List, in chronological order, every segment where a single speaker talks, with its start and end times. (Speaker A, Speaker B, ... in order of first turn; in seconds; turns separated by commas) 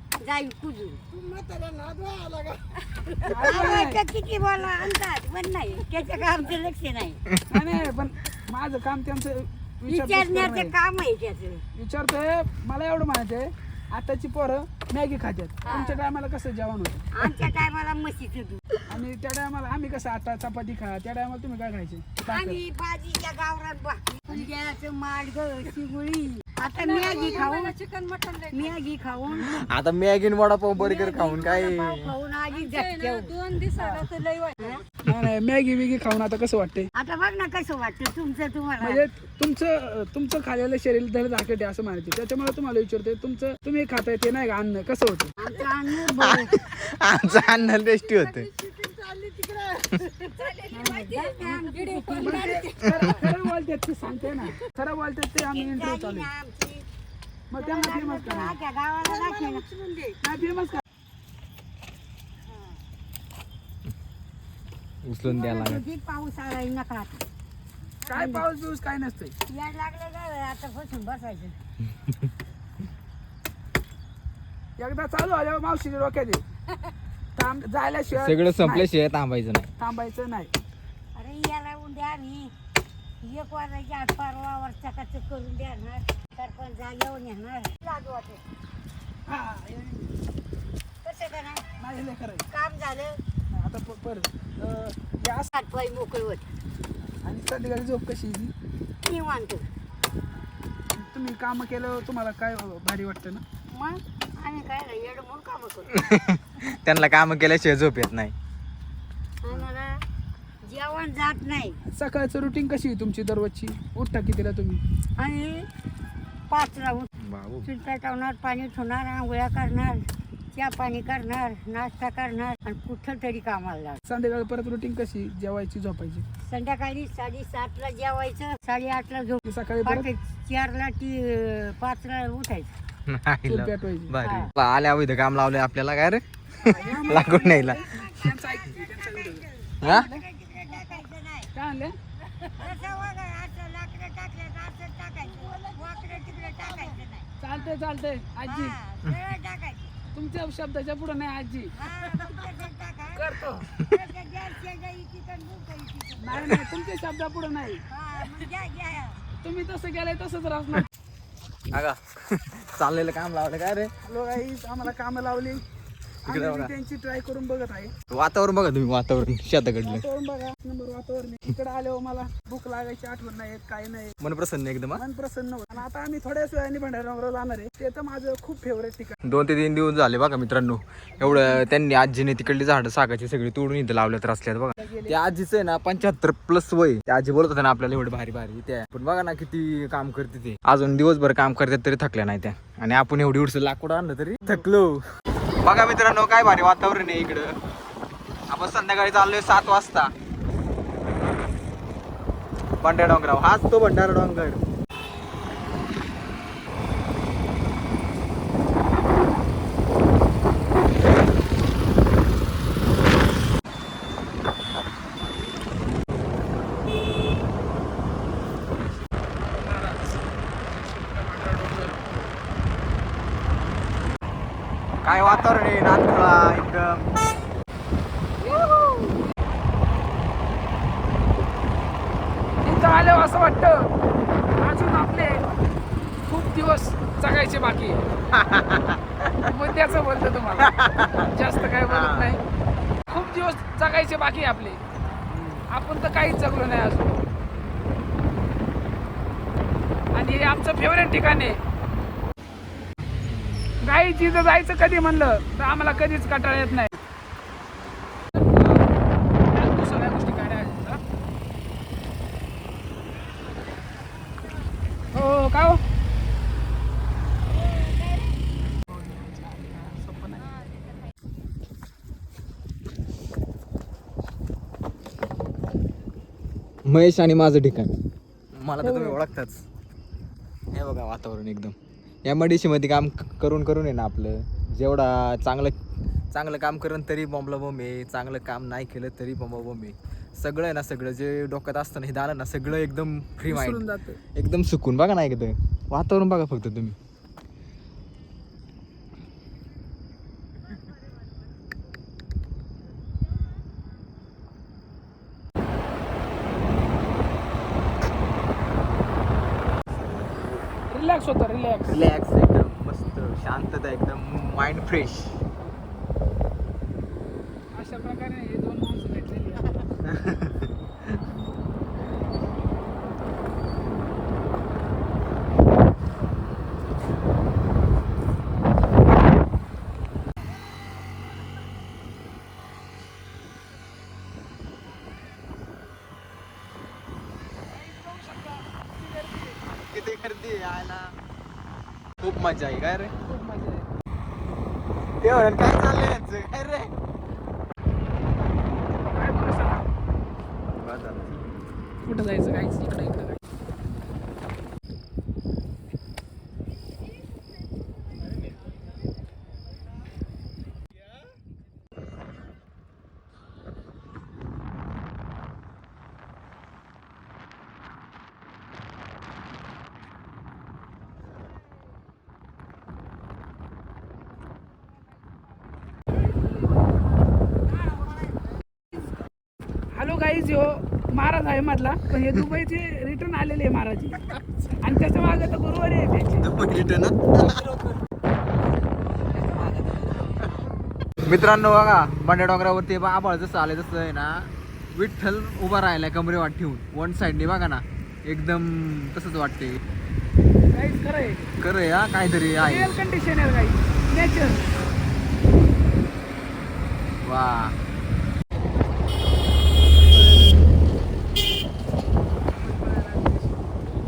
Speaker A: 0.2-1.0, Speaker B: 1.3-2.5, Speaker A: 2.9-7.2, Speaker B: 3.1-3.5, Speaker C: 3.3-4.0, Speaker C: 7.5-10.7, Speaker A: 9.9-11.6, Speaker C: 11.8-17.1, Speaker A: 15.7-16.0, Speaker A: 17.1-18.8, Speaker C: 18.9-22.6, Speaker A: 22.3-27.8, Speaker B: 26.6-28.8, Speaker A: 28.5-29.5, Speaker D: 29.3-32.1, Speaker A: 30.7-33.4, Speaker B: 32.5-34.8, Speaker C: 33.8-34.1, Speaker C: 35.0-36.9, Speaker A: 37.0-39.1, Speaker C: 38.8-45.3, Speaker A: 45.4-46.6, Speaker D: 46.1-48.5, Speaker B: 47.3-47.7, Speaker B: 48.2-52.7, Speaker C: 50.7-51.1, Speaker A: 50.9-53.0, Speaker C: 52.2-56.3, Speaker A: 55.5-56.9, Speaker C: 57.5-58.5, Speaker A: 57.6-59.7, Speaker B: 59.0-60.2, Speaker C: 60.2-60.8, Speaker D: 65.0-65.8, Speaker A: 65.2-67.2, Speaker A: 68.1-68.5, Speaker C: 68.1-69.3, Speaker A: 69.5-71.6, Speaker C: 74.8-76.4, Speaker C: 77.4-78.9, Speaker D: 78.1-79.7, Speaker C: 79.8-80.5, Speaker A: 81.1-82.5, Speaker A: 83.2-88.4, Speaker C: 89.3-90.2, Speaker A: 91.0-91.7, Speaker C: 91.8-92.5, Speaker A: 92.5-93.2, Speaker C: 93.5-95.5, Speaker A: 95.5-96.5, Speaker C: 97.2-98.5, Speaker A: 99.0-99.7, Speaker C: 100.9-103.4, Speaker A: 103.7-106.1, Speaker D: 105.9-108.3, Speaker A: 109.4-110.0, Speaker A: 110.6-111.8, Speaker C: 111.9-114.8, Speaker A: 115.2-115.7, Speaker A: 116.5-117.1, Speaker D: 117.2-117.7, Speaker A: 117.6-124.0, Speaker C: 124.1-126.2, Speaker A: 126.4-132.7, Speaker C: 129.5-130.1, Speaker D: 133.1-138.3, Speaker C: 133.5-134.1, Speaker A: 134.2-134.5, Speaker C: 136.7-140.2, Speaker A: 136.7-141.5, Speaker D: 139.8-140.1, Speaker C: 141.6-142.0, Speaker A: 142.6-147.3, Speaker B: 145.3-147.0, Speaker C: 147.4-148.8, Speaker A: 148.5-149.9, Speaker C: 150.1-151.7, Speaker A: 151.7-156.8, Speaker C: 153.2-153.7, Speaker C: 156.2-157.8, Speaker A: 157.9-159.2, Speaker C: 159.3-160.9, Speaker D: 161.7-163.9, Speaker C: 164.0-165.6, Speaker C: 166.3-167.9, Speaker D: 166.3-166.7, Speaker D: 168.1-170.1, Speaker C: 169.8-174.2, Speaker D: 174.2-175.0, Speaker C: 174.9-179.2, Speaker D: 179.2-195.0, Speaker C: 181.2-181.6, Speaker C: 184.8-185.2, Speaker D: 195.6-197.5, Speaker D: 198.5-200.1, Speaker D: 202.8-204.6, Speaker C: 219.5-220.0, Speaker C: 221.2-221.9, Speaker D: 225.0-227.1, Speaker C: 225.1-225.5, Speaker C: 232.6-233.9, Speaker C: 234.6-235.5, Speaker C: 236.3-238.0, Speaker D: 238.3-239.6, Speaker C: 239.4-242.4, Speaker D: 240.6-242.4, Speaker C: 243.1-244.8, Speaker C: 245.7-247.2, Speaker C: 250.1-251.6, Speaker C: 253.8-256.9, Speaker C: 259.5-261.0, Speaker C: 265.1-265.8, Speaker C: 268.8-270.5, Speaker D: 276.9-277.9, Speaker D: 278.6-279.6, Speaker C: 278.8-279.2, Speaker D: 280.7-281.8, Speaker D: 282.3-285.8, Speaker D: 286.3-297.0, Speaker C: 293.5-294.2, Speaker C: 310.9-312.1, Speaker D: 311.9-315.4, Speaker C: 317.7-319.8, Speaker D: 320.1-320.7, Speaker C: 337.7-339.6, Speaker D: 339.9-341.1, Speaker D: 342.2-343.1, Speaker C: 343.3-343.9, Speaker D: 345.2-346.9, Speaker C: 349.1-349.9, Speaker D: 350.8-351.4, Speaker C: 352.0-353.4, Speaker C: 379.9-386.5, Speaker D: 386.4-387.8, Speaker D: 391.3-399.8, Speaker C: 400.7-401.5, Speaker D: 401.6-402.9, Speaker C: 402.6-404.7, Speaker D: 407.2-407.8, Speaker C: 410.0-410.7, Speaker C: 412.5-413.7